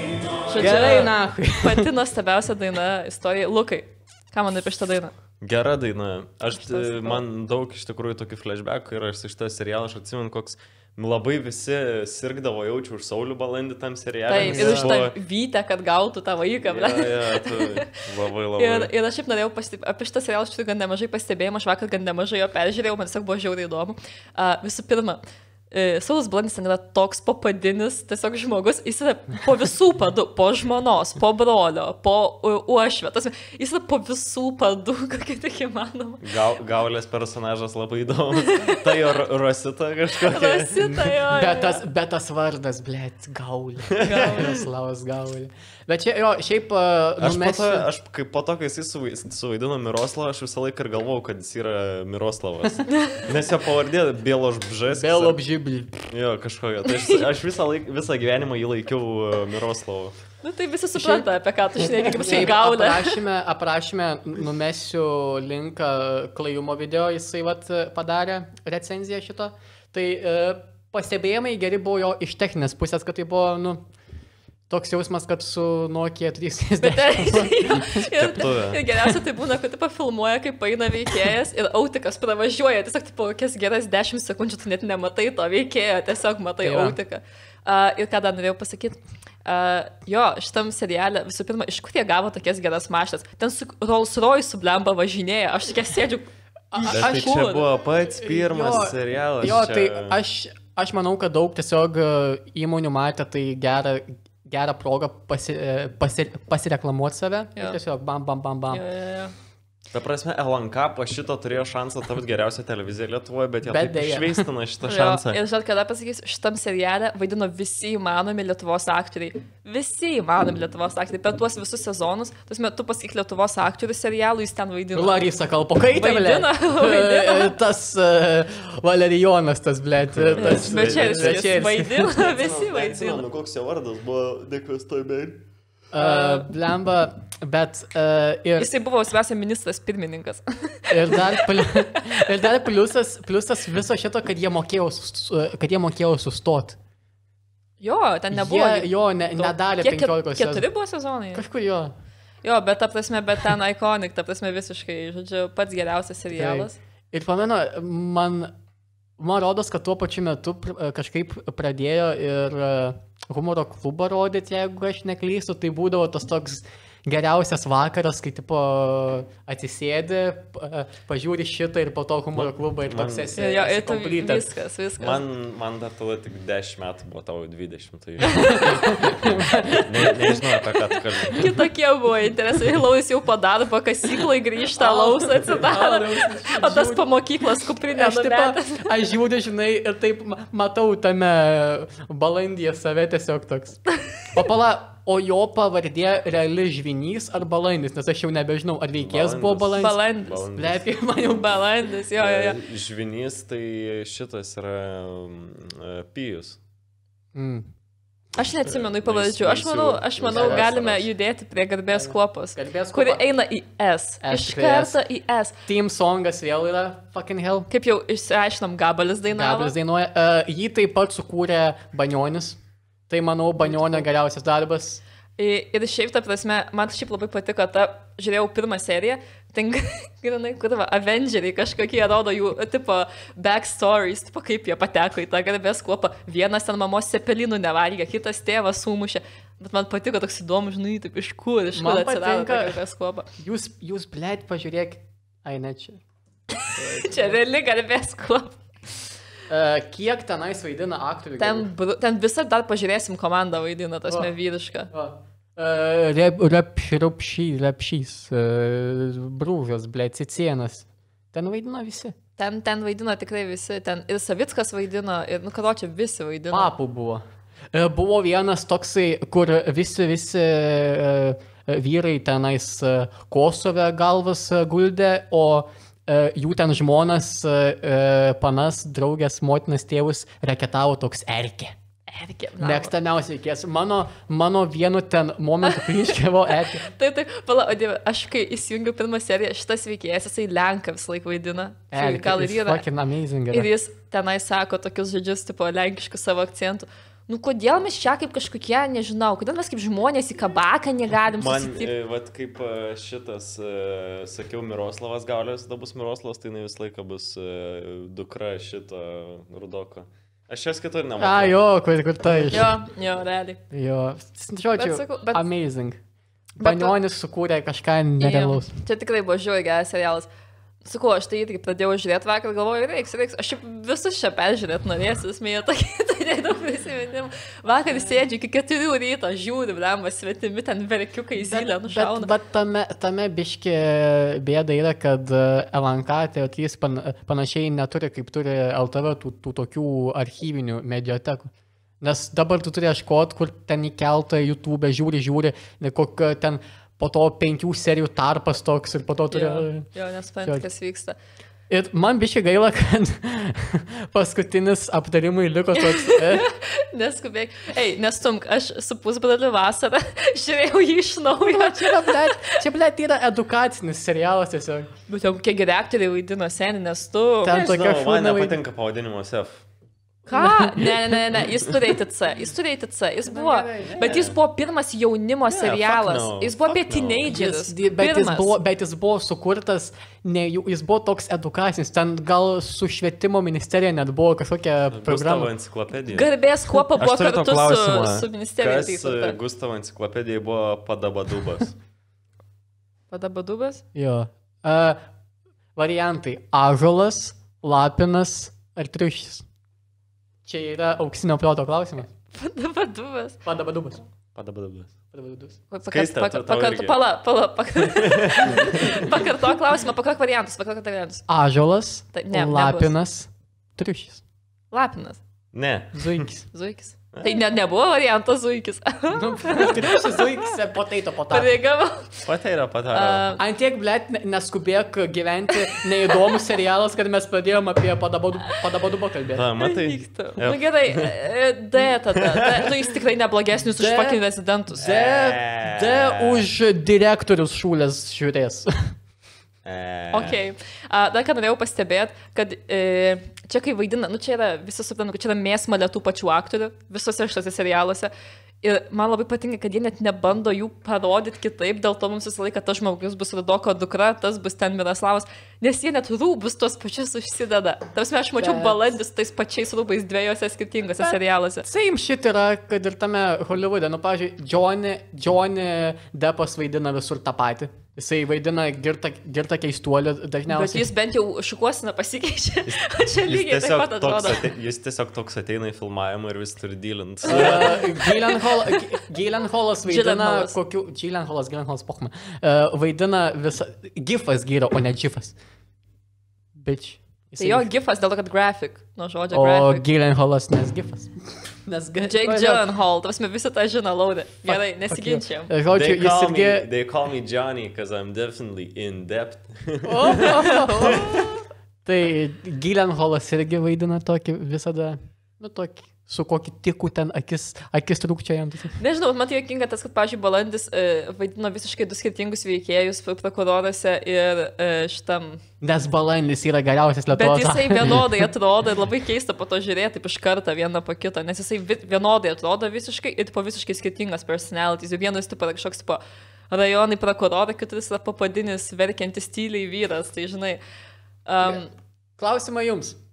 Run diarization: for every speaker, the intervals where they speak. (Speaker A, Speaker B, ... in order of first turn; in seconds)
Speaker A: 0.5-5.1, 6.5-7.2, 14.3-17.8, 18.6-25.2, 25.7-36.2, 38.4-38.9, 40.2-41.8, 44.0-44.5, 52.9-53.3, 56.9-57.2, 60.4-63.2, 76.8-97.7, 108.7-109.3, 114.8-125.2, 125.9-127.6, 130.4-133.2, 136.0-136.5, 138.6-142.2, 147.8-151.4, 152.4-156.8, 173.3-175.2, 178.2-179.1, 180.1-180.4, 181.2-189.1, 199.8-200.4, 201.2-202.6, 208.3-215.6, 217.7-219.7, 223.6-224.0, 225.4-243.3, 246.8-248.6, 251.4-254.9, 262.4-266.7, 282.1-282.9, 285.6-292.8, 293.5-301.9, 312.5-313.6, 314.8-315.4, 316.6-316.9, 318.2-320.3, 320.8-332.3, 349.3-351.1, 355.8-362.6, 365.1-367.6, 370.3-378.5, 386.1-389.4, 393.1-393.8, 402.3-403.4, 405.7-411.2, 412.1-412.9, 414.7-415.2, 416.5-420.5, 421.3-422.3, 422.9-423.4, 429.6-434.9, 440.1-448.1, 448.6-461.6, 470.5-474.4, 477.2-478.8, 479.8-480.5, 487.4-489.9, 492.0-495.5, 500.2-501.4, 508.8-515.4, 517.1-530.6, 531.2-531.7
Speaker B: 0.6-1.9, 14.4-14.9, 40.8-47.9, 54.9-56.1, 61.0-61.3, 61.8-73.8, 74.7-78.1, 86.6-87.0, 96.7-97.4, 98.1-108.8, 113.6-114.5, 124.9-132.1, 135.9-138.7, 140.9-146.8, 148.3-150.7, 151.3-151.9, 156.3-158.5, 159.2-174.5, 178.5-180.1, 184.8-187.1, 187.9-193.8, 194.3-200.0, 200.6-201.5, 207.3-207.7, 210.3-210.7, 211.9-213.2, 214.2-215.0, 215.7-217.7, 219.3-225.0, 241.8-242.8, 243.4-246.0, 246.7-247.4, 249.5-251.7, 254.9-262.1, 266.5-281.7, 282.6-286.9, 291.9-293.7, 311.2-312.7, 313.7-316.0, 316.6-318.7, 331.5-349.9, 351.7-356.5, 361.4-364.9, 367.4-368.6, 370.3-371.1, 373.3-374.2, 377.3-385.5, 393.9-395.0, 395.8-399.4, 400.4-402.1, 403.4-404.1, 405.1-405.6, 411.3-414.2, 415.9-416.4, 419.1-421.5, 423.4-429.5, 433.8-434.2, 434.7-438.9, 458.4-458.8, 461.0-470.9, 477.2-485.4, 486.5-487.7, 489.3-492.6, 494.4-496.7, 499.8-501.2, 501.8-508.8, 515.6-518.1, 532.2-533.0
Speaker C: 5.4-15.2, 16.6-18.9, 36.2-40.9, 43.9-44.5, 47.2-55.4, 56.1-60.1, 78.1-78.8, 96.8-100.2, 109.9-115.4, 130.1-131.5, 132.1-135.4, 172.3-173.3, 175.0-179.1, 179.8-181.5, 199.0-200.8, 202.2-206.6, 208.7-211.1, 301.4-311.6, 367.4-369.6, 373.8-374.4, 375.5-377.3, 384.9-386.3, 387.0-391.8, 404.3-404.9, 405.8-407.0, 407.8-409.1, 415.5-416.3, 417.1-417.4, 422.2-423.2, 429.3-431.1, 432.1-432.7, 434.8-436.5, 439.6-440.4, 472.7-477.9, 495.7-501.3